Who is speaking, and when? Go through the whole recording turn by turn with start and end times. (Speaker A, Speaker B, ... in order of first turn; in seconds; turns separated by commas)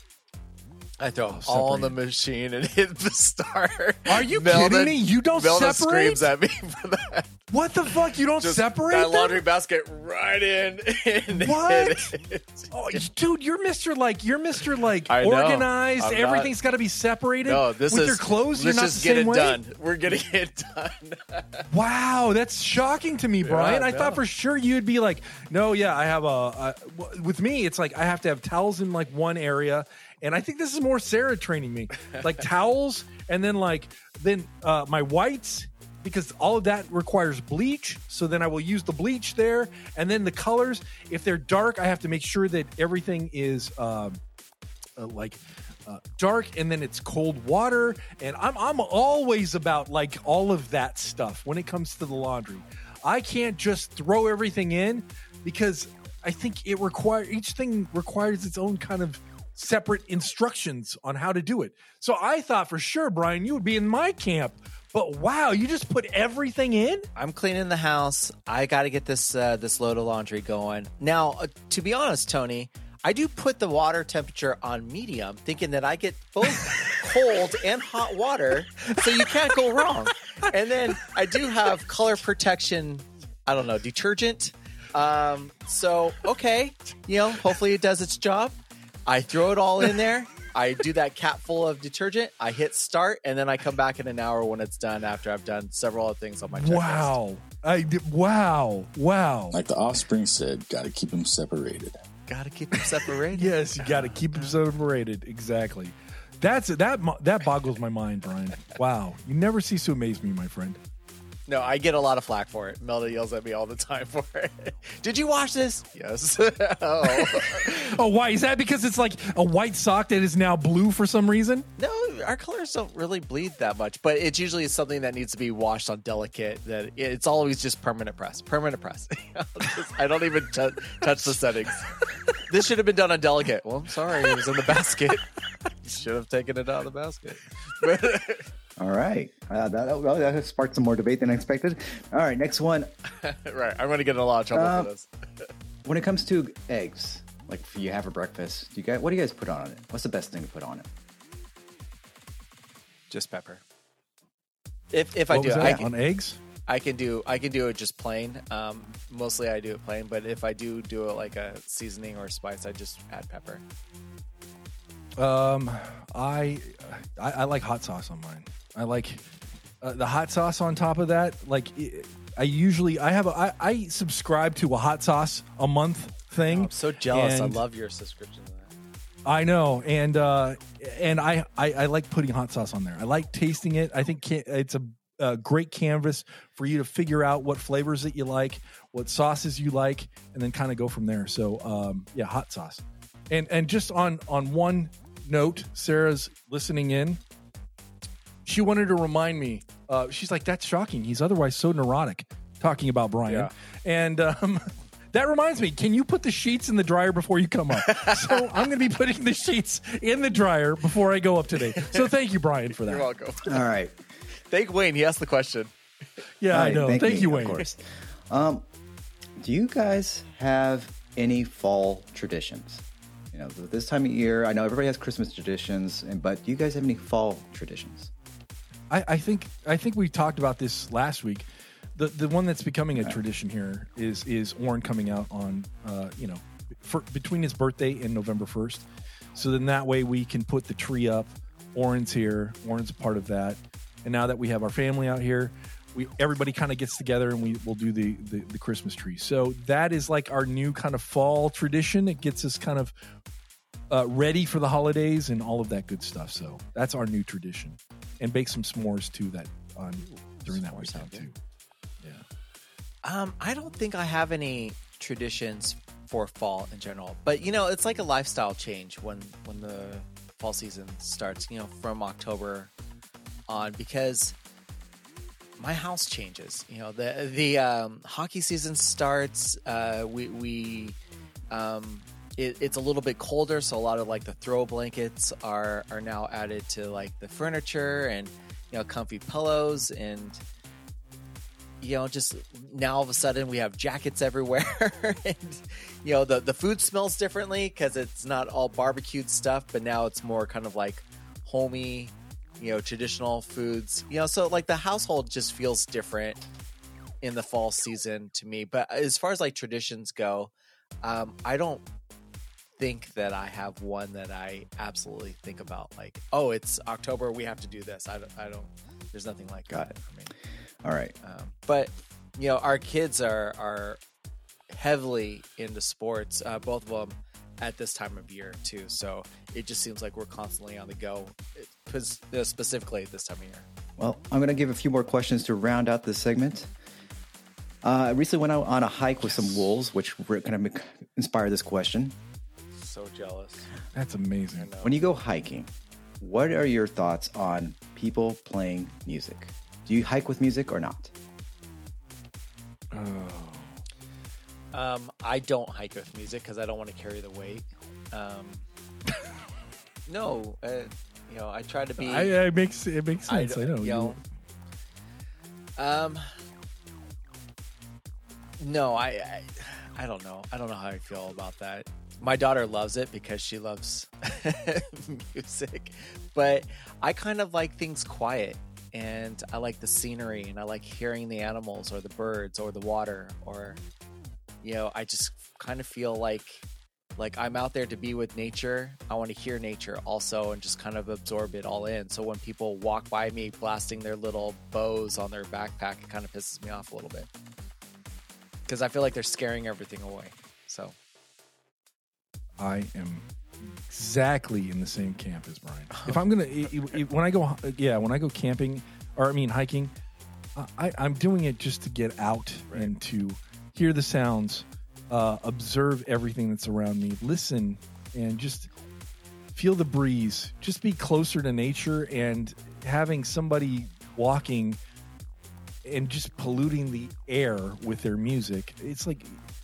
Speaker A: 1.0-7.3, Speaker B: 1.3-1.9, Speaker B: 4.1-6.3, Speaker B: 7.5-9.4, Speaker A: 7.9-13.0, Speaker B: 11.3-12.1, Speaker B: 12.7-19.6, Speaker A: 15.1-16.5, Speaker A: 17.4-21.7, Speaker B: 21.7-44.2, Speaker A: 23.4-24.2, Speaker B: 45.0-67.1, Speaker A: 67.1-88.5, Speaker A: 89.1-97.2, Speaker B: 96.5-99.5, Speaker C: 99.5-101.9, Speaker A: 102.3-104.5, Speaker B: 103.3-110.8, Speaker A: 111.5-117.9, Speaker B: 117.0-121.7, Speaker A: 121.8-135.2, Speaker A: 135.8-138.5, Speaker D: 138.8-142.9, Speaker A: 143.2-145.5, Speaker D: 144.5-144.9, Speaker D: 145.8-150.9, Speaker A: 153.1-153.6, Speaker A: 154.9-155.9, Speaker B: 155.3-156.4, Speaker A: 156.7-163.6, Speaker B: 165.2-169.2, Speaker B: 169.8-177.6, Speaker A: 176.4-178.7, Speaker B: 179.3-197.2, Speaker B: 198.4-213.1, Speaker A: 203.3-203.5, Speaker A: 207.8-208.7, Speaker A: 211.6-212.1, Speaker A: 212.7-213.7, Speaker D: 213.4-213.9, Speaker A: 214.5-215.7, Speaker B: 216.4-217.6, Speaker D: 216.5-218.6, Speaker D: 219.4-228.1, Speaker B: 228.9-238.8, Speaker B: 239.4-252.9, Speaker B: 253.9-261.4, Speaker A: 259.9-261.3, Speaker A: 263.0-272.7, Speaker A: 273.5-274.3, Speaker A: 275.6-280.9, Speaker A: 281.5-290.4, Speaker A: 291.8-306.4, Speaker A: 307.2-310.5, Speaker A: 311.0-311.8, Speaker A: 312.8-320.3, Speaker D: 319.7-320.0, Speaker D: 320.8-321.1, Speaker A: 321.2-324.0, Speaker A: 324.7-333.7, Speaker D: 334.0-336.7, Speaker D: 337.8-342.2, Speaker A: 342.8-343.7, Speaker B: 343.9-344.7, Speaker A: 344.6-345.0, Speaker D: 344.8-351.1, Speaker B: 352.9-353.7, Speaker A: 354.7-358.7, Speaker A: 360.1-362.4, Speaker B: 362.0-364.2, Speaker A: 363.3-364.2, Speaker A: 365.8-366.3, Speaker A: 368.6-383.8, Speaker A: 384.6-386.6, Speaker A: 387.2-397.3, Speaker A: 398.7-400.9, Speaker B: 402.6-409.9, Speaker A: 405.9-406.2, Speaker B: 410.6-418.7, Speaker A: 412.7-412.9, Speaker B: 419.6-424.8, Speaker B: 425.8-429.4